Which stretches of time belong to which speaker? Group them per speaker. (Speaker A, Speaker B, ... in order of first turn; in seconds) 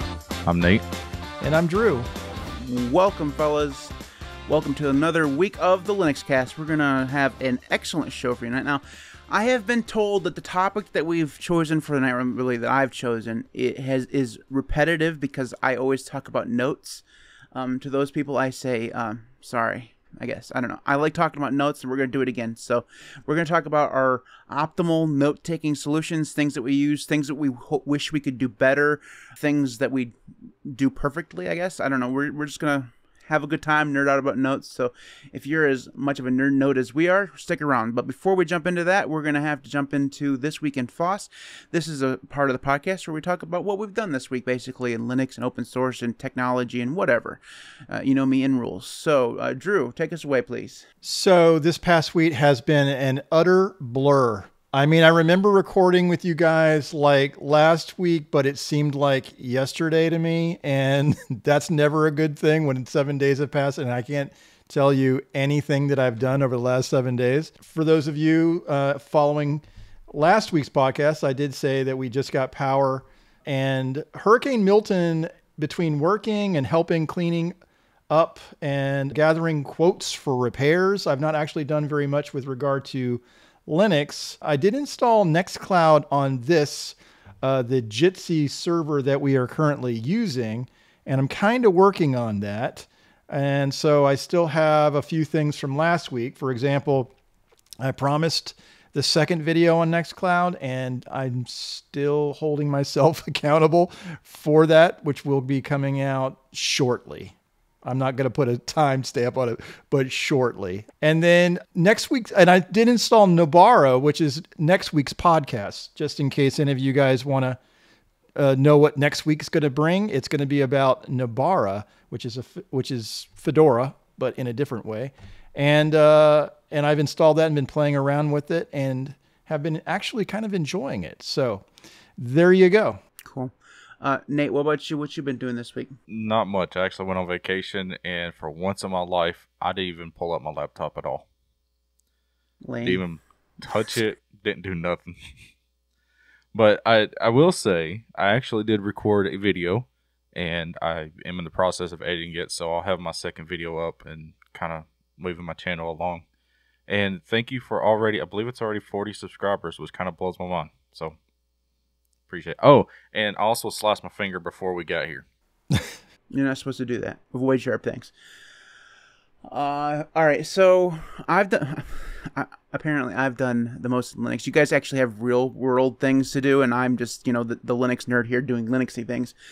Speaker A: 0.4-0.8, 136.1-141.2, 142.8-145.1, 146.5-156.2, 156.9-161.2, 162.3-165.2
Speaker B: 1.4-2.1, 51.0-77.5, 78.1-97.1, 97.8-117.6, 118.3-131.7, 132.2-133.0
Speaker C: 2.5-3.9, 4.5-17.0, 17.5-50.9, 133.2-135.9, 142.6-143.0, 166.3-168.1, 169.5-179.3